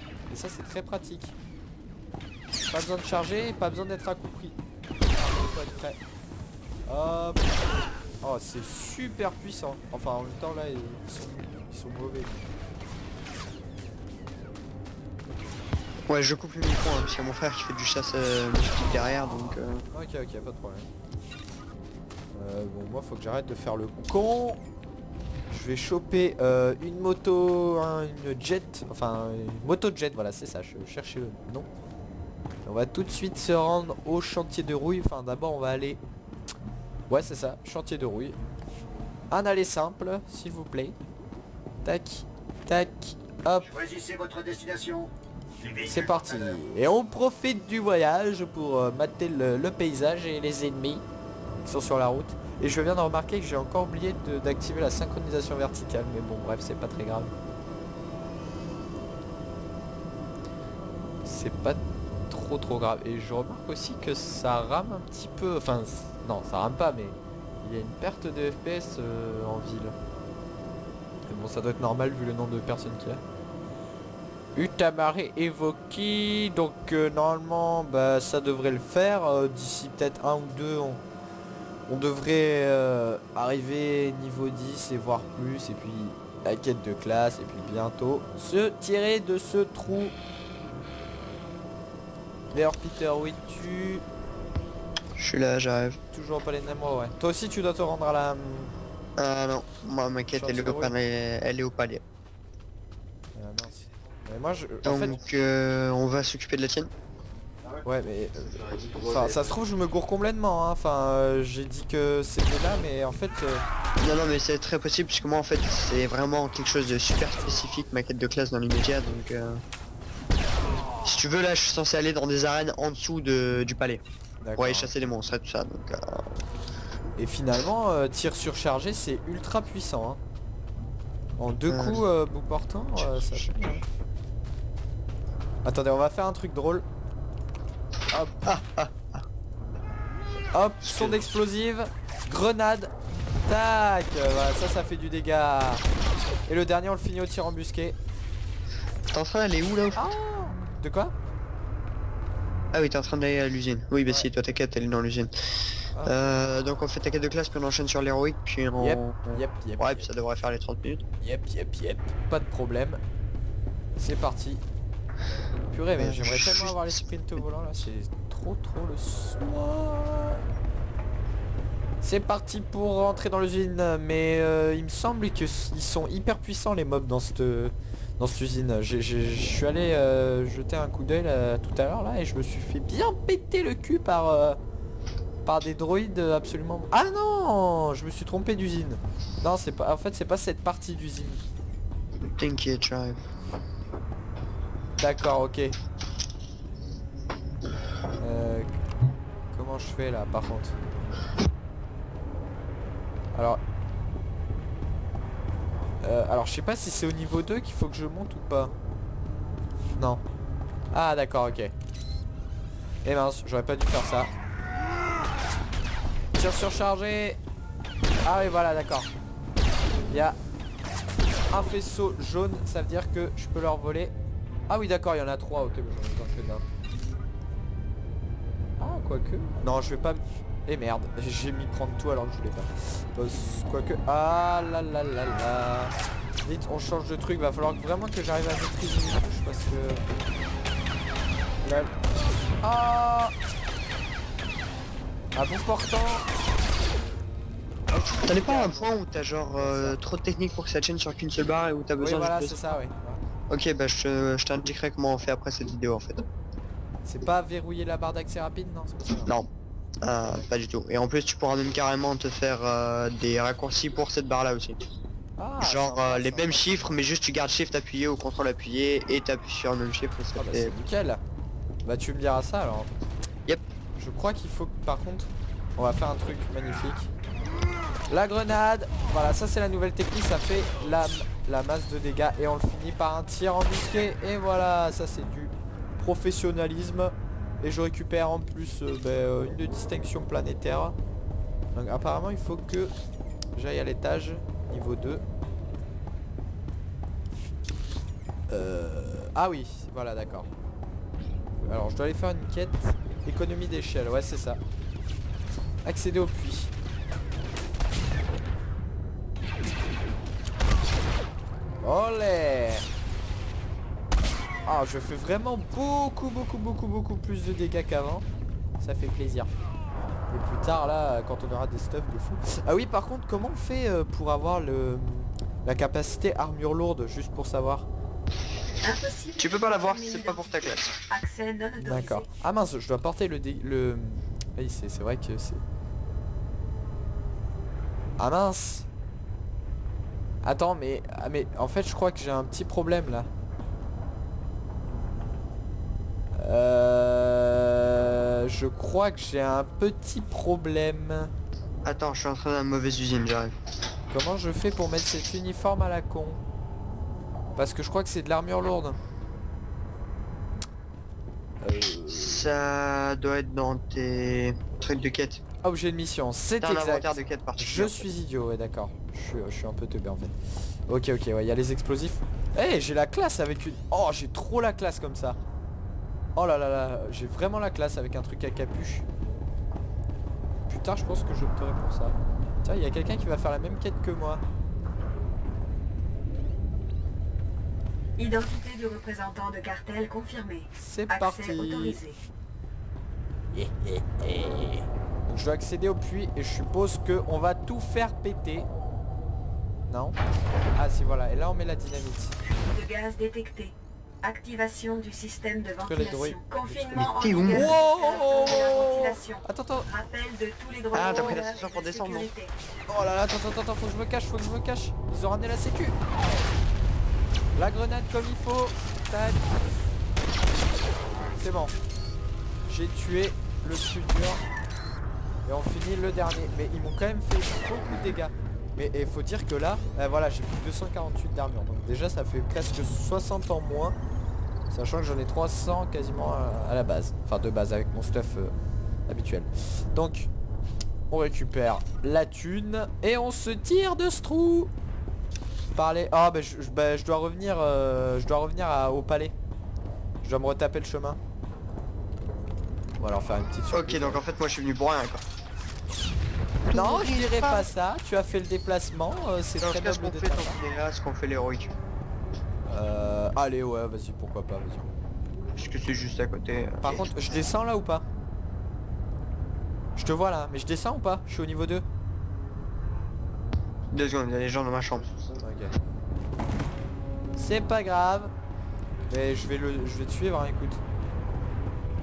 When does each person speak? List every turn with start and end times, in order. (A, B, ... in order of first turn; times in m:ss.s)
0:00.3-0:01.3 A
0:02.7-0:04.6 A
0:05.1-0:06.0 A
0:06.9-0:07.6 A
0:08.2-0:12.5 A
0:16.1-0:19.8 B
0:19.9-0:20.9 A
0:22.3-0:24.6 A
0:25.5-0:31.7 A
0:32.6-0:36.0 A
0:37.1-0:38.4 A
0:39.3-0:41.0 A
0:41.8-0:44.1 A
0:44.6-0:44.9 A
0:45.8-0:51.0 A
0:51.6-0:57.3 A
1:01.2-1:09.9 A
1:11.3-1:13.2 A
1:14.5-1:21.0 A
1:21.9-1:30.1 A
1:32.5-1:34.0 A
1:35.2-1:36.0 B
1:36.1-1:38.7 A
1:39.2-1:42.0 B
1:40.3-1:40.9 A
1:43.3-1:45.2 A
1:44.8-1:46.9 B
1:47.8-1:53.6 A
1:54.0-1:59.6 B
2:01.0-2:04.0 B
2:04.4-2:04.9 A
2:04.6-2:06.3 B
2:07.2-2:10.2 A
2:11.4-2:13.8 A
2:11.7-2:12.0 B
2:15.6-2:16.8 A
2:18.1-2:18.4 A
2:18.4-2:18.9 B
2:20.5-2:22.9 A
2:20.8-2:21.2 B
2:23.4-2:25.8 A
2:26.5-2:28.0 A
2:29.1-2:30.0 B
2:30.0-2:31.1 A
2:32.7-2:35.3 B
2:36.0-2:36.4 A
2:36.0-2:41.0 B
2:38.8-2:40.1 A
2:41.2-2:43.0 A
2:44.0-2:44.6 A
2:45.7-2:50.4 A
2:46.0-2:47.0 B
2:52.0-3:04.6 A
3:05.4-3:11.4 A
3:12.2-3:13.2 B
3:15.0-3:15.7 A
3:18.2-3:18.7 A
3:19.5-3:20.7 A
3:23.3-3:23.6 A
3:26.0-3:28.7 A
3:30.9-3:31.7 A
3:33.0-3:34.3 A
3:36.3-3:37.4 A
3:38.2-3:39.1 A
3:40.1-3:40.4 A
3:41.5-3:44.1 A
3:44.7-3:46.6 A
3:48.8-3:55.9 A
3:56.4-4:00.0 A
4:01.6-4:01.9 A
4:02.6-4:03.3 A
4:05.3-4:06.2 A
4:07.9-4:09.0 A
4:08.2-4:12.6 B
4:09.6-4:10.0 A
4:12.0-4:13.2 A
4:13.5-4:16.2 B
4:17.0-4:19.3 A
4:20.0-4:24.8 B
4:25.4-4:26.9 A
4:25.6-4:30.7 B
4:30.4-4:31.2 A
4:31.8-4:32.9 A
4:34.0-4:37.1 A
4:38.1-4:51.0 A
4:51.7-4:52.9 A
4:53.6-4:55.2 A
4:58.5-5:00.5 A
5:01.6-5:04.6 A
5:05.8-5:06.7 A
5:11.8-5:12.8 A
5:14.6-5:18.2 A
5:18.8-5:19.5 A
5:20.3-5:27.9 A
5:28.8-5:32.3 C
5:29.4-5:30.9 B
5:31.8-5:35.6 A
5:38.2-5:38.9 A
5:40.4-5:43.3 A
5:46.4-5:51.3 A
5:51.8-5:53.5 B
5:54.1-5:56.4 A
5:57.6-5:59.0 A
6:01.6-6:02.5 A
6:02.1-6:05.4 B
6:05.6-6:10.3 A
6:06.6-6:08.0 B
6:10.9-6:15.4 A
6:16.4-6:19.0 A
6:20.7-6:24.4 A
6:28.2-6:32.2 C
6:30.7-6:32.0 A
6:33.6-6:38.7 A
6:39.9-6:40.2 A
6:40.7-6:42.4 A
6:42.6-6:52.5 C
6:45.8-6:49.9 A
6:47.0-6:47.7 B
6:50.9-6:52.3 B
6:51.1-6:51.4 A
6:52.9-6:56.0 A
6:57.6-6:59.4 A
7:01.3-7:01.7 A
7:02.7-7:04.4 A
7:05.4-7:14.0 A
7:14.7-7:18.5 A
7:19.1-7:20.3 A
7:21.1-7:24.7 A
7:25.7-7:29.3 A
7:30.2-7:31.2 A
7:33.0-7:34.2 A
7:33.7-7:35.2 B
7:36.7-7:40.6 A
7:36.7-7:37.6 B
7:39.6-7:41.8 B
7:42.7-7:44.9 A
7:45.6-7:47.1 B
7:46.8-7:48.0 A
7:50.0-7:51.8 A
7:53.9-7:55.2 B
7:55.4-7:55.7 A
7:57.4-7:58.3 A
7:59.1-8:00.8 A